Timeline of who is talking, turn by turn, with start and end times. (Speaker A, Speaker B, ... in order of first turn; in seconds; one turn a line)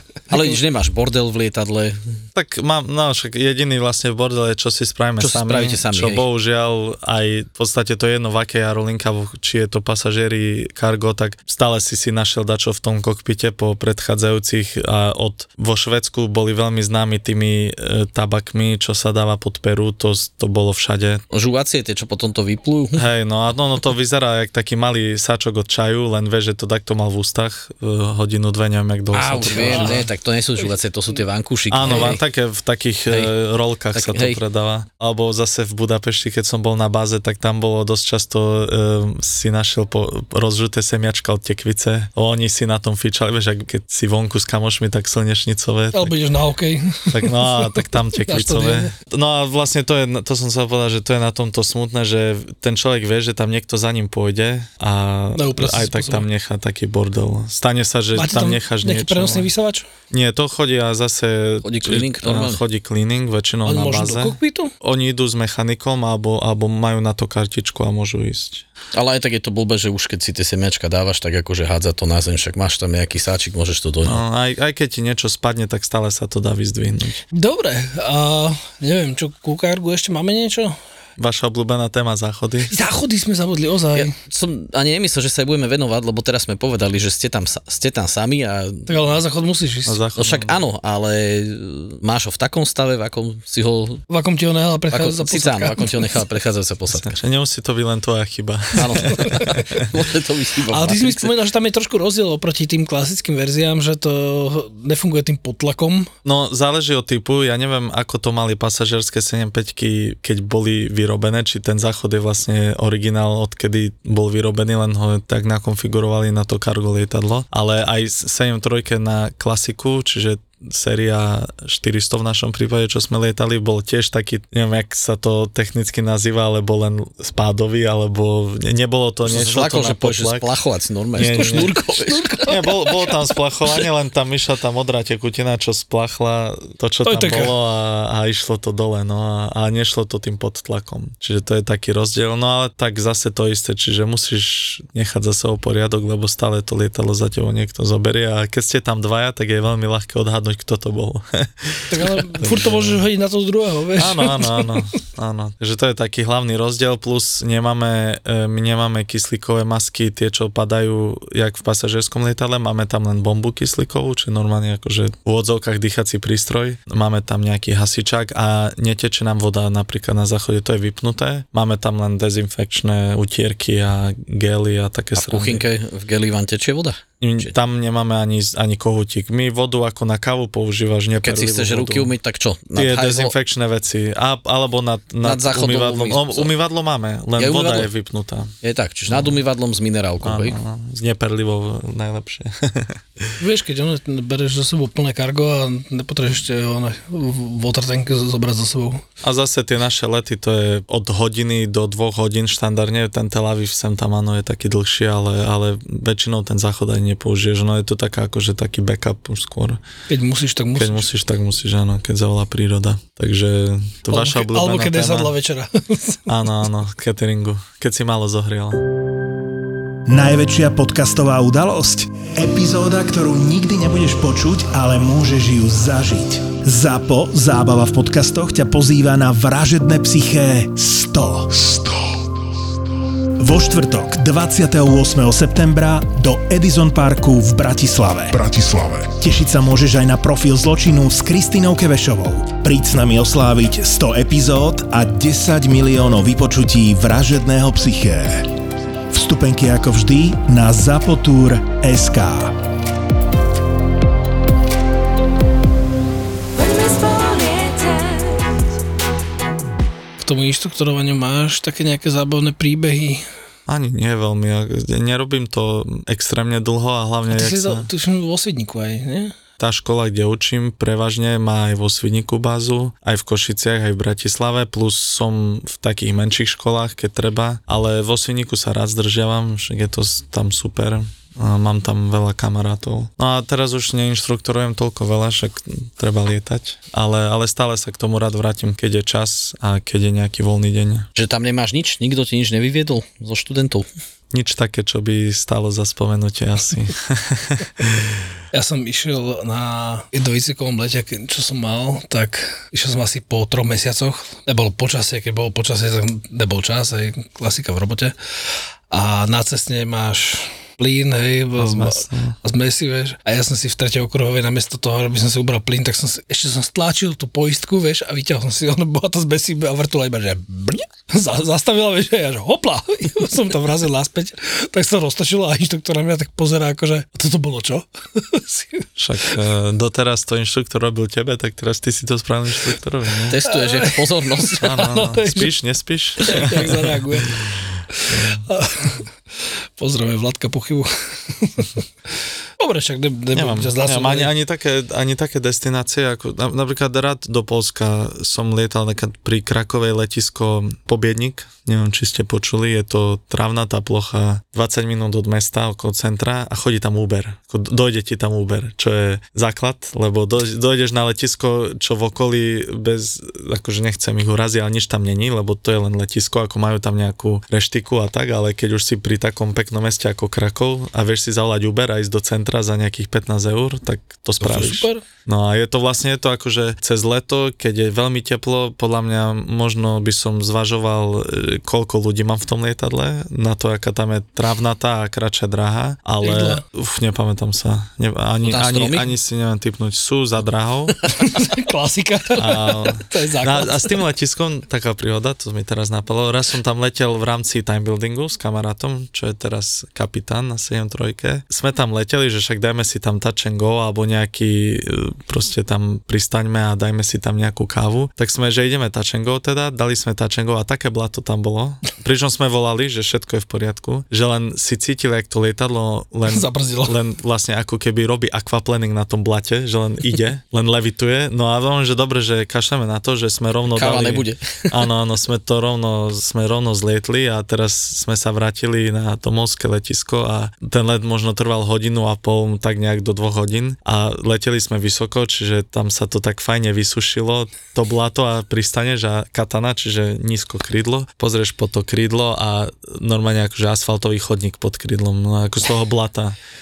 Speaker A: 0.3-2.2
Speaker B: 2.4-21.2
Speaker A: 5.2-6.2
Speaker A: 21.3-23.0
Speaker B: 23.0-30.0
Speaker A: 29.1-32.2
Speaker C: 29.4-30.1
Speaker B: 31.7-46.1
Speaker A: 33.9-34.4
Speaker C: 45.9-48.9
Speaker B: 47.1-59.5
Speaker C: 55.4-56.3
Speaker C: 58.1-59.9
Speaker B: 60.1-68.7
Speaker A: 61.6-62.6
Speaker C: 63.7-64.7
Speaker A: 69.0-74.2
Speaker B: 74.0-77.2
Speaker C: 77.3-80.8
Speaker B: 81.2-82.7
Speaker C: 82.7-84.1
Speaker A: 84.0-88.9
Speaker C: 88.9-90.0
Speaker B: 89.9-90.6
Speaker A: 90.2-94.0
Speaker C: 94.1-96.2
Speaker A: 94.9-97.2
Speaker B: 96.9-99.9
Speaker A: 98.8-101.3
Speaker C: 99.2-99.5
Speaker C: 100.7-106.1
Speaker B: 106.2-130.5
Speaker A: 129.3-132.3
Speaker B: 131.2-131.7
Speaker C: 131.2-133.3
Speaker B: 132.5-153.1
Speaker C: 137.1-137.5
Speaker C: 151.9-154.8
Speaker B: 154.0-175.6
Speaker A: 175.2-177.6
Speaker B: 177.2-182.1
Speaker A: 181.2-183.3
Speaker B: 182.8-188.5
Speaker A: 185.2-186.5
Speaker A: 187.4-187.9
Speaker A: 188.6-190.6
Speaker B: 189.1-189.4
Speaker B: 190.2-193.3
Speaker C: 193.4-199.0
Speaker B: 199.2-209.8
Speaker C: 210.1-211.1
Speaker B: 210.8-215.3
Speaker C: 214.1-216.3
Speaker B: 216.3-218.8
Speaker D: 220.1-232.1
Speaker D: 233.4-248.5
Speaker D: 249.1-252.5
Speaker C: 256.9-257.4
Speaker C: 260.2-263.2
Speaker B: 263.7-267.9
Speaker C: 267.3-269.3
Speaker B: 269.6-291.1
Speaker A: 291.1-293.9
Speaker B: 294.3-298.0
Speaker C: 298.5-308.1
Speaker C: 308.9-329.3
Speaker B: 311.6-312.4
Speaker B: 329.0-333.4
Speaker A: 333.3-334.6
Speaker C: 333.4-335.5
Speaker B: 334.6-337.0
Speaker C: 336.2-341.8
Speaker B: 338.1-338.4
Speaker C: 342.6-344.3
Speaker B: 343.3-391.0
Speaker C: 374.4-375.0
Speaker C: 386.2-386.6
Speaker A: 388.4-389.1
Speaker C: 391.2-394.0
Speaker B: 392.4-446.4
Speaker C: 416.3-417.0
Speaker A: 423.7-424.7